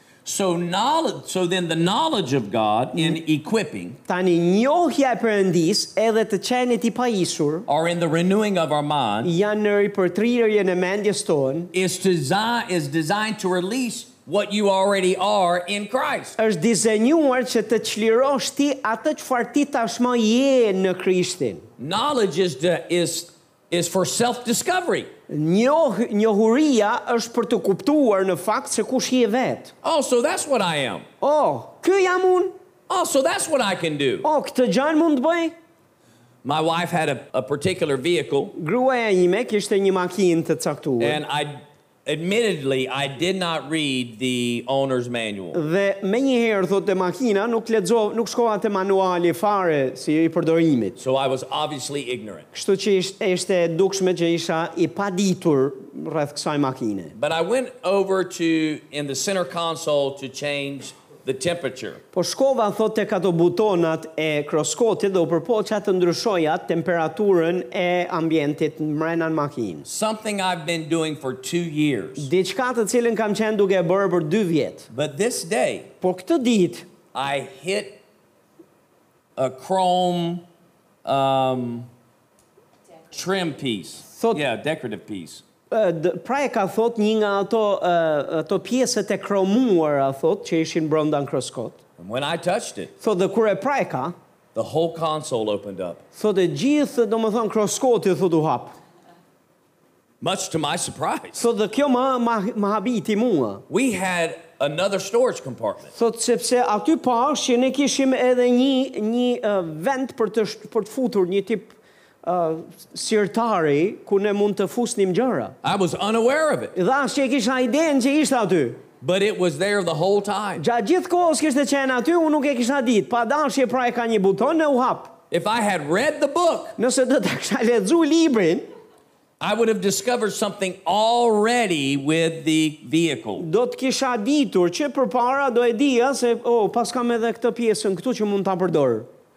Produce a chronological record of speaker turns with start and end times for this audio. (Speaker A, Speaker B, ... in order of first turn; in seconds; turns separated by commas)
Speaker A: 0.2-4.0, Speaker B: 4.1-7.7, Speaker A: 7.7-9.3, Speaker B: 9.2-11.7, Speaker A: 11.7-16.4, Speaker B: 16.4-21.6, Speaker A: 21.8-25.1, Speaker B: 25.3-29.7, Speaker A: 29.8-31.1, Speaker B: 31.2-32.5, Speaker A: 32.9-34.3, Speaker B: 34.2-35.5, Speaker A: 36.4-38.5, Speaker B: 38.5-41.2, Speaker A: 41.0-45.6, Speaker B: 45.5-51.0, Speaker A: 51.0-52.5, Speaker B: 52.5-57.1, Speaker A: 57.1-62.0, Speaker B: 62.1-69.8, Speaker A: 69.8-72.3, Speaker B: 72.2-74.9, Speaker A: 74.9-75.9, Speaker B: 76.0-76.9, Speaker A: 77.1-78.0, Speaker A: 79.3-80.4, Speaker A: 81.0-81.9, Speaker A: 83.1-85.4, Speaker B: 84.2-84.4, Speaker B: 85.7-91.8, Speaker A: 92.0-92.9, Speaker B: 93.0-94.1, Speaker A: 94.5-96.0, Speaker B: 96.2-98.7, Speaker A: 100.2-101.4, Speaker B: 101.3-103.6, Speaker A: 103.7-105.9, Speaker B: 105.9-115.5, Speaker A: 115.6-116.7, Speaker B: 116.7-118.8, Speaker A: 119.0-120.6, Speaker B: 120.6-125.2, Speaker A: 125.3-126.8, Speaker B: 126.8-128.6, Speaker A: 129.4-133.4, Speaker B: 133.4-139.1